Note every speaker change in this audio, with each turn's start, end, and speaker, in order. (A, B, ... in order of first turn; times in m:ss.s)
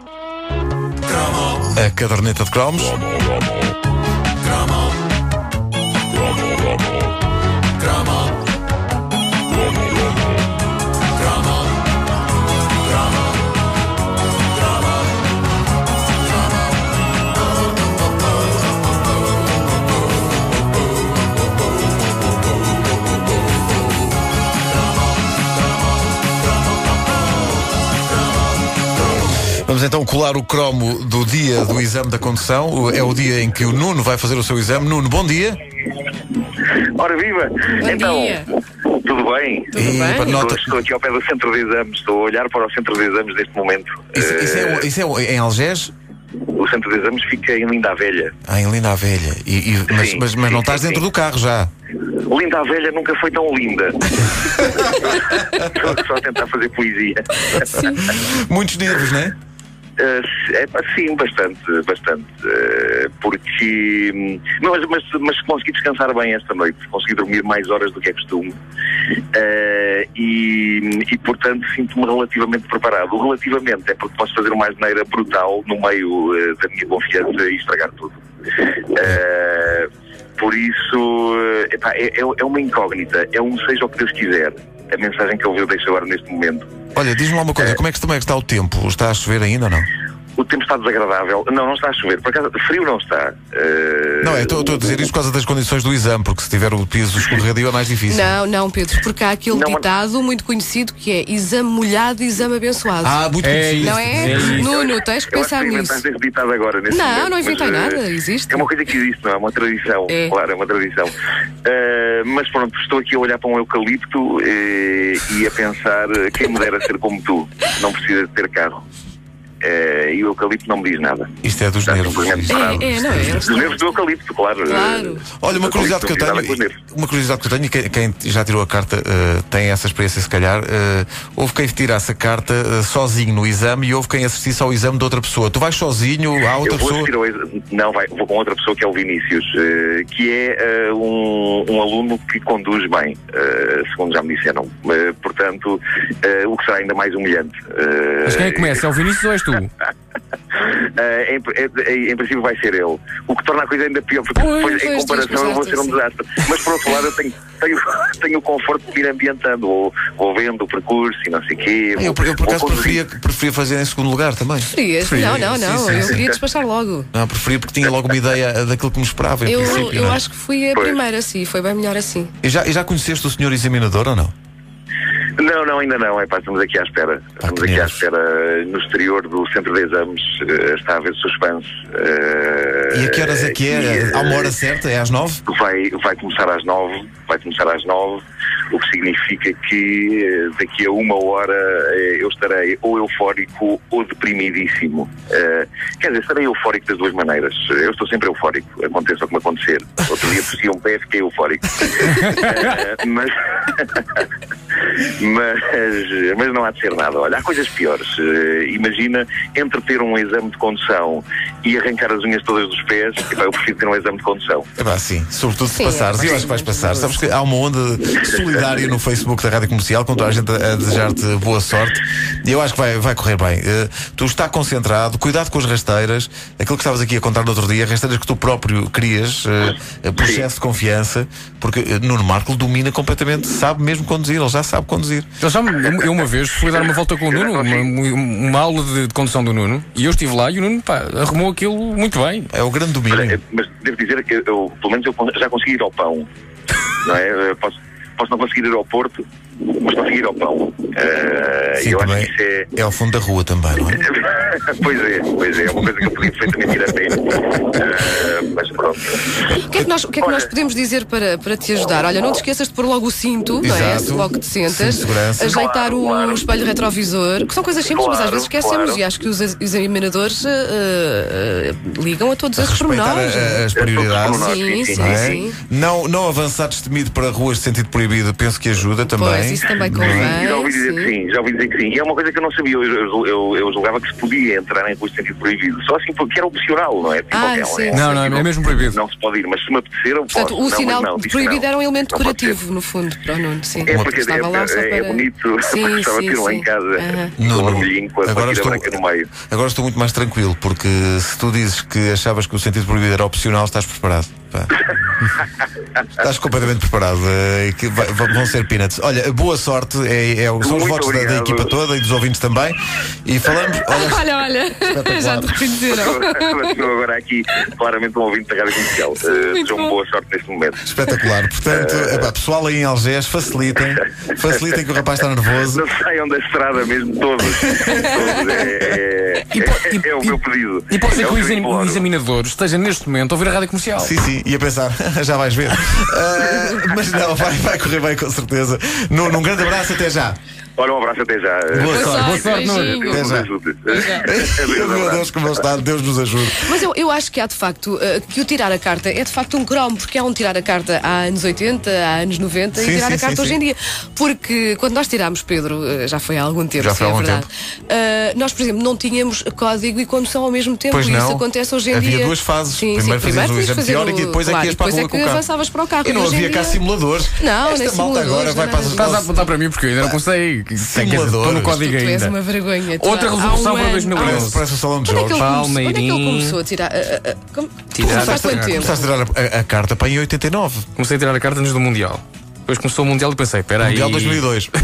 0:01.7-0:03.0 A
0:29.6-0:35.6 A
0:36.8-0:44.9 B
0:37.8-0:38.5 C
0:39.7-0:40.4 C
0:39.8-0:40.7 A
0:44.1-0:45.9 A
0:46.5-0:48.3 B
0:48.4-0:51.7 A
0:49.9-0:51.0 B
0:52.0-0:57.9 B
0:57.8-0:59.3 A
1:00.0-1:08.5 B
1:09.3-1:26.7 B
1:26.9-1:29.9 A
1:30.4-1:34.7 B
1:34.2-1:38.3 A
1:38.1-1:43.2 C
1:39.5-1:39.8 B
1:43.0-1:44.6 A
1:43.4-1:44.7 D
1:43.8-1:46.0 C
1:44.6-1:58.8 B
1:46.9-1:48.6 C
1:50.1-1:50.3 C
1:59.6-2:01.3 B
2:01.4-2:03.5 A
2:01.8-2:06.8 B
2:02.4-2:04.0 C
2:04.6-2:05.3 C
2:05.3-2:17.1 A
2:16.6-2:28.8 B
2:28.2-2:29.7 D
2:30.5-2:43.0 B
2:34.4-2:36.0 C
2:42.0-2:46.3 A
2:44.7-2:47.1 C
2:45.0-2:46.0 D
2:47.1-2:50.2 A
2:49.4-2:52.3 C
2:52.4-2:54.3 A
2:55.4-3:04.5 B
2:57.4-2:58.0 A
3:02.9-3:05.4 A
3:05.5-3:24.2 B
3:25.0-3:34.7 B
3:34.8-3:55.3 A
3:35.7-3:37.2 C
3:50.2-3:50.4 B
3:55.4-4:02.5 D
3:57.2-3:57.9 B
4:02.5-4:03.4 A
4:03.1-4:06.3 B
4:07.0-4:12.7 B
4:11.8-4:14.1 A
4:14.0-4:19.2 B
4:19.5-4:35.6 C
4:20.2-4:20.5 B
4:23.6-4:25.6 A
4:25.5-4:26.4 B
4:27.9-4:29.0 B
4:32.6-4:40.4 A
4:33.7-4:35.4 B
4:39.0-4:41.1 C
4:40.0-4:48.3 B
4:47.3-4:48.4 C
4:47.9-4:49.0 D
4:48.9-4:52.6 B
4:50.3-4:57.4 C
4:53.8-4:59.3 B
4:57.4-4:58.9 A
4:59.4-5:04.8 A
5:06.1-5:14.3 A
5:10.6-5:11.8 B
5:13.7-5:16.9 C
5:14.8-5:15.7 A
5:15.9-5:20.9 B
5:19.2-5:19.9 C
5:20.8-5:25.8 A
5:21.7-5:22.3 B
5:25.7-5:32.0 B
5:27.9-5:28.7 C
5:29.5-5:30.4 D
5:30.9-5:34.1 D
5:34.0-5:40.4 A
5:36.6-5:36.9 C
5:40.8-5:45.3 B
5:41.7-5:42.5 A
5:41.8-5:43.3 C
5:42.0-5:43.1 D
5:43.1-5:43.5 A
5:43.9-5:44.2 D
5:44.0-5:46.7 A
5:46.6-6:06.8 C
5:52.8-5:53.6 A
5:56.8-5:57.5 A
6:00.9-6:05.4 A
6:06.0-6:09.3 A
6:07.3-6:09.4 C
6:08.9-6:12.3 D
6:10.8-6:11.8 A
6:11.7-6:14.5 C
6:13.0-6:14.7 D
6:14.1-6:15.5 A
6:15.1-6:19.1 C
6:15.3-6:16.6 D
6:17.9-6:18.9 D
6:18.0-6:20.9 A
6:21.0-6:24.5 D
6:23.8-6:24.7 A